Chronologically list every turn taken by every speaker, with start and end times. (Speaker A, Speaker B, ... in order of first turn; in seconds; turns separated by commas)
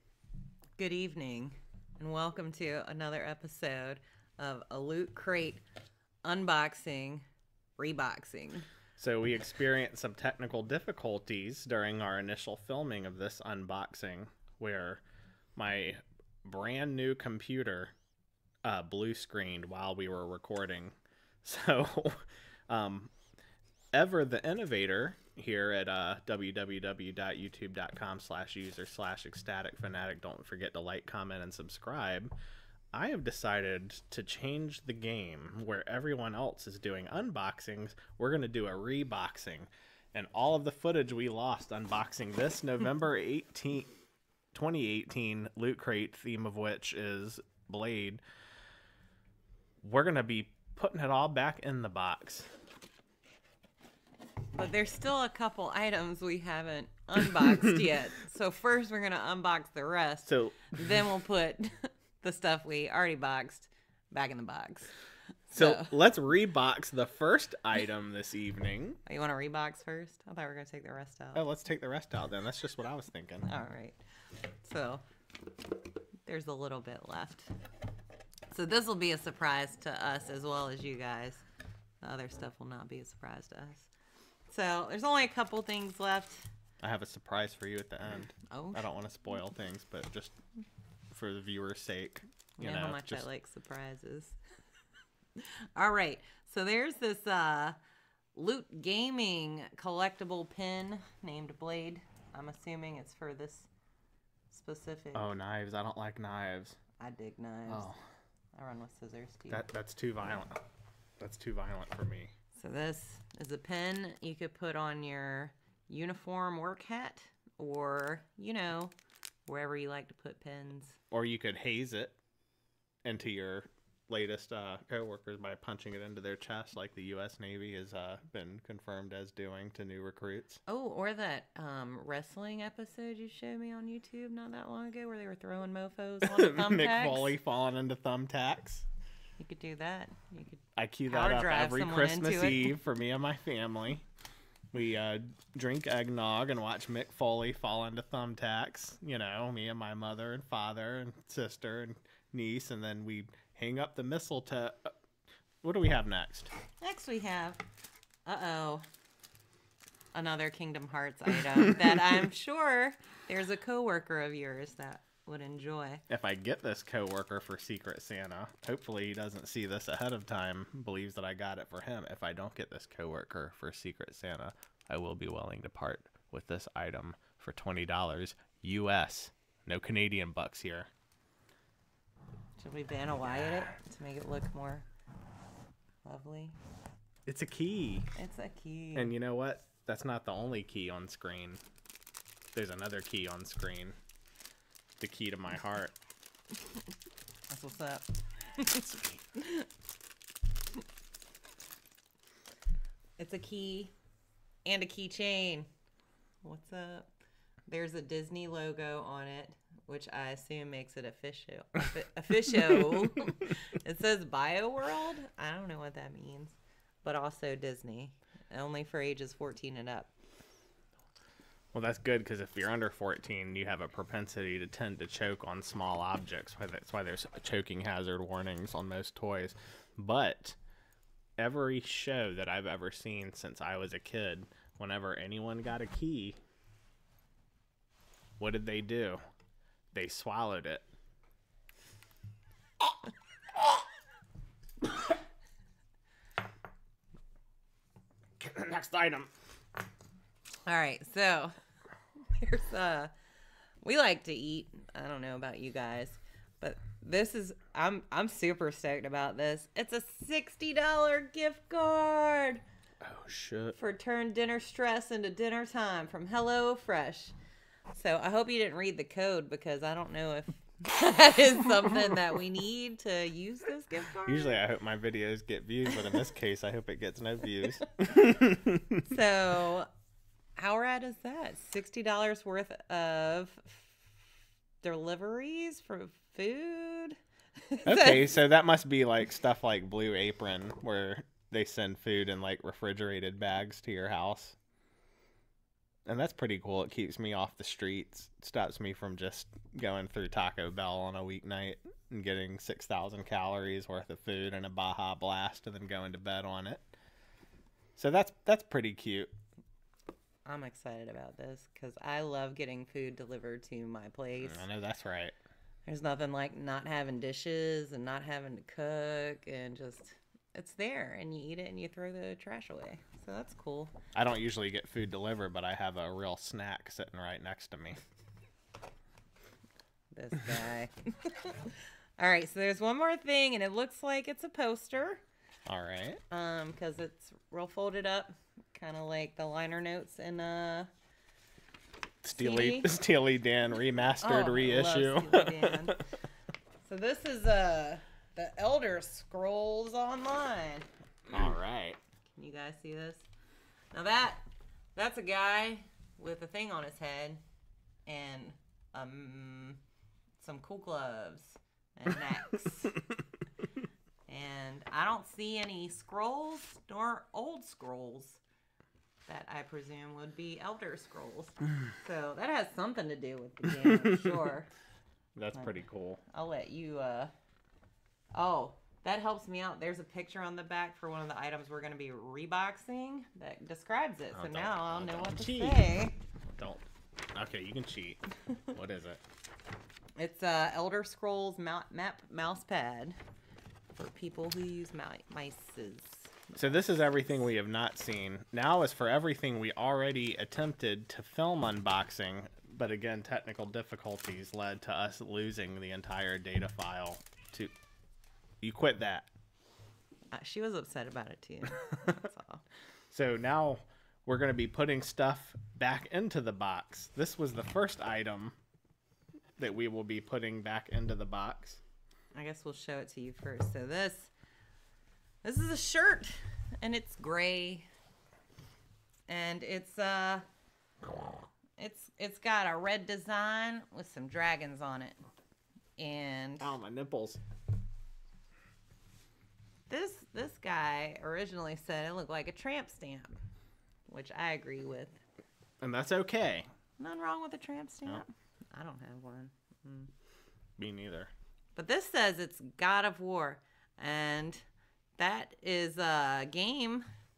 Speaker A: 0.8-5.6, Speaker A: 6.2-7.2, Speaker A: 7.8-8.7, Speaker B: 9.0-15.0, Speaker B: 15.6-17.9, Speaker B: 18.6-23.1, Speaker B: 23.9-32.3, Speaker B: 32.9-43.9, Speaker B: 44.5-48.2, Speaker B: 49.8-52.5, Speaker A: 54.5-65.0, Speaker B: 60.2-61.0, Speaker A: 65.5-65.9, Speaker B: 65.5-69.0, Speaker A: 69.0-71.4, Speaker B: 71.3-73.5, Speaker A: 73.4-74.0, Speaker A: 74.6-75.0, Speaker A: 76.2-77.5, Speaker A: 78.5-81.4, Speaker A: 82.0-83.9, Speaker A: 84.5-86.5, Speaker B: 86.8-90.4, Speaker A: 88.5-88.9, Speaker B: 91.1-93.2, Speaker A: 92.6-94.4, Speaker A: 95.4-97.8, Speaker A: 98.3-103.7, Speaker A: 104.5-105.3, Speaker B: 105.1-106.8, Speaker A: 107.0-107.9, Speaker B: 107.7-108.0, Speaker A: 108.5-109.6, Speaker B: 109.5-110.6, Speaker B: 111.2-112.3, Speaker A: 112.5-118.9, Speaker A: 119.5-121.0, Speaker B: 121.1-122.2, Speaker B: 123.0-130.6, Speaker A: 130.7-137.3, Speaker B: 136.3-138.8, Speaker A: 139.4-142.8, Speaker B: 140.8-144.0, Speaker B: 144.7-154.9, Speaker B: 155.6-156.5, Speaker A: 156.8-157.6, Speaker A: 158.2-158.8, Speaker A: 160.1-166.0, Speaker B: 166.1-180.9, Speaker A: 182.6-184.9, Speaker A: 186.0-186.6, Speaker B: 187.2-188.1, Speaker A: 188.2-189.1, Speaker B: 188.9-191.6, Speaker B: 192.5-194.0, Speaker B: 195.0-195.9, Speaker A: 197.5-199.7, Speaker B: 198.9-199.2, Speaker A: 203.2-203.9, Speaker A: 204.7-205.7, Speaker A: 206.4-207.1, Speaker A: 207.7-220.1, Speaker B: 221.7-230.6, Speaker B: 231.4-236.4, Speaker B: 238.4-239.2, Speaker B: 239.9-240.8, Speaker B: 248.4-249.3, Speaker A: 250.7-251.6, Speaker A: 252.3-253.1, Speaker A: 253.8-262.6, Speaker B: 263.0-263.8, Speaker A: 263.8-267.4, Speaker A: 267.9-274.6, Speaker B: 274.2-279.1, Speaker A: 279.1-279.9, Speaker A: 280.6-284.2, Speaker A: 284.8-287.2, Speaker A: 287.7-288.4, Speaker B: 287.9-294.6, Speaker B: 296.1-306.9, Speaker B: 308.0-309.3, Speaker A: 310.4-314.7, Speaker B: 314.4-315.4, Speaker A: 315.9-323.9, Speaker B: 324.1-328.0, Speaker A: 330.1-335.2, Speaker B: 335.7-336.2, Speaker A: 336.3-340.9, Speaker B: 342.2-345.9, Speaker A: 342.3-342.9, Speaker A: 344.2-346.0, Speaker A: 346.8-350.9, Speaker B: 351.3-352.0, Speaker A: 352.4-353.3, Speaker A: 353.9-357.4, Speaker A: 358.1-359.8, Speaker A: 360.4-363.0, Speaker A: 364.3-368.4, Speaker A: 369.3-374.7, Speaker B: 375.4-376.2, Speaker A: 375.5-377.3, Speaker A: 378.3-386.2, Speaker B: 384.3-385.9, Speaker B: 386.6-389.2, Speaker A: 390.2-393.2, Speaker A: 393.9-397.0, Speaker B: 396.6-407.8, Speaker B: 408.6-409.3, Speaker A: 410.3-412.6, Speaker B: 413.1-418.6, Speaker B: 419.6-421.8, Speaker A: 422.4-424.3, Speaker A: 425.4-427.9, Speaker A: 429.3-430.5, Speaker A: 431.8-435.2, Speaker A: 436.0-436.8, Speaker B: 436.6-437.4, Speaker A: 439.9-443.4, Speaker A: 444.1-445.2, Speaker B: 445.8-446.7, Speaker A: 447.0-450.1, Speaker B: 450.8-451.3, Speaker A: 451.8-454.6, Speaker A: 455.2-457.1